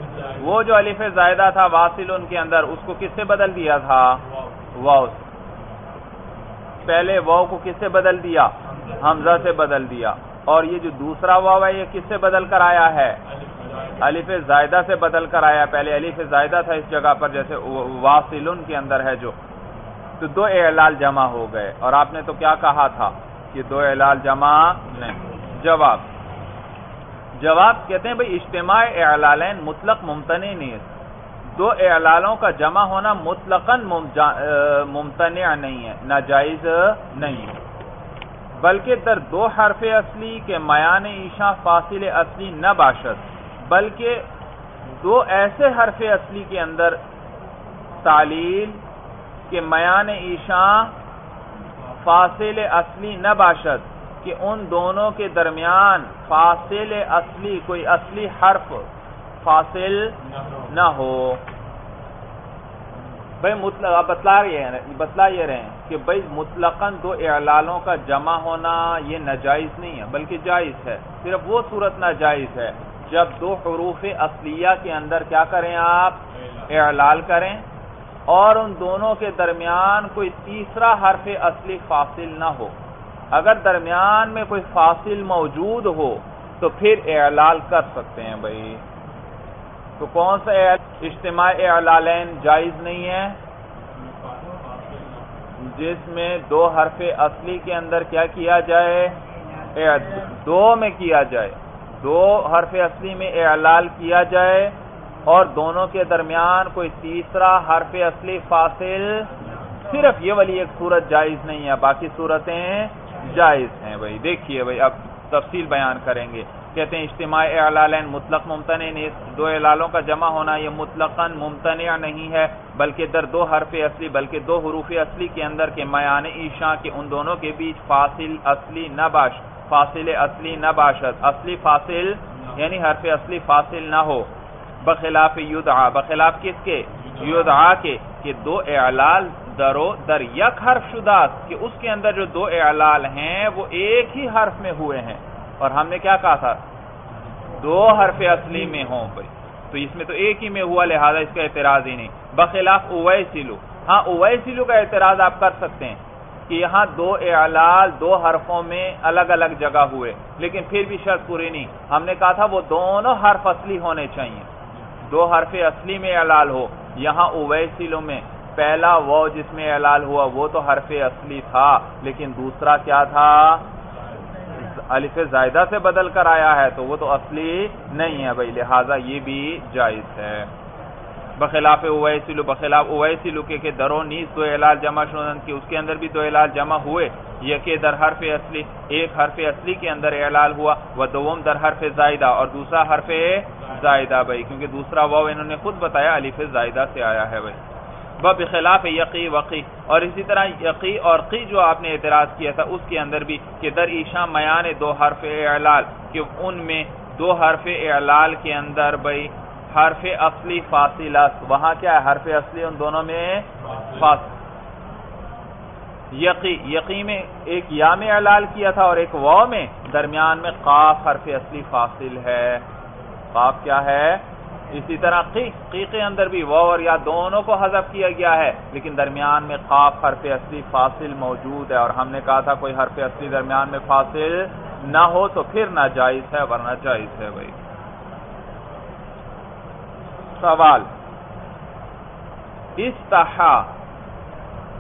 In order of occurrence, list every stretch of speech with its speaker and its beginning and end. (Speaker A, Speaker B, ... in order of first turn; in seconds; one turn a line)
Speaker A: 0.4-4.2
Speaker A: 4.7-5.3
Speaker A: 6.8-13.2
Speaker A: 14.0-19.4
Speaker A: 20.2-26.1
Speaker A: 27.4-30.9
Speaker A: 31.5-37.6
Speaker A: 38.6-44.2
Speaker A: 45.0-47.0
Speaker A: 48.0-48.8
Speaker A: 49.5-51.0
Speaker A: 52.0-58.9
Speaker A: 59.4-61.4
Speaker A: 63.4-77.7
Speaker A: 78.3-82.8
Speaker A: 83.3-88.8
Speaker A: 90.0-93.4
Speaker A: 95.6-99.2
Speaker A: 99.7-134.3
Speaker A: 134.8-146.6
Speaker A: 147.6-164.5
Speaker A: 165.1-173.7
Speaker A: 174.5-180.5
Speaker A: 181.4-197.6
Speaker A: 198.2-214.3
Speaker A: 216.1-222.7
Speaker A: 223.3-237.6
Speaker A: 240.4-240.9
Speaker A: 242.8-243.7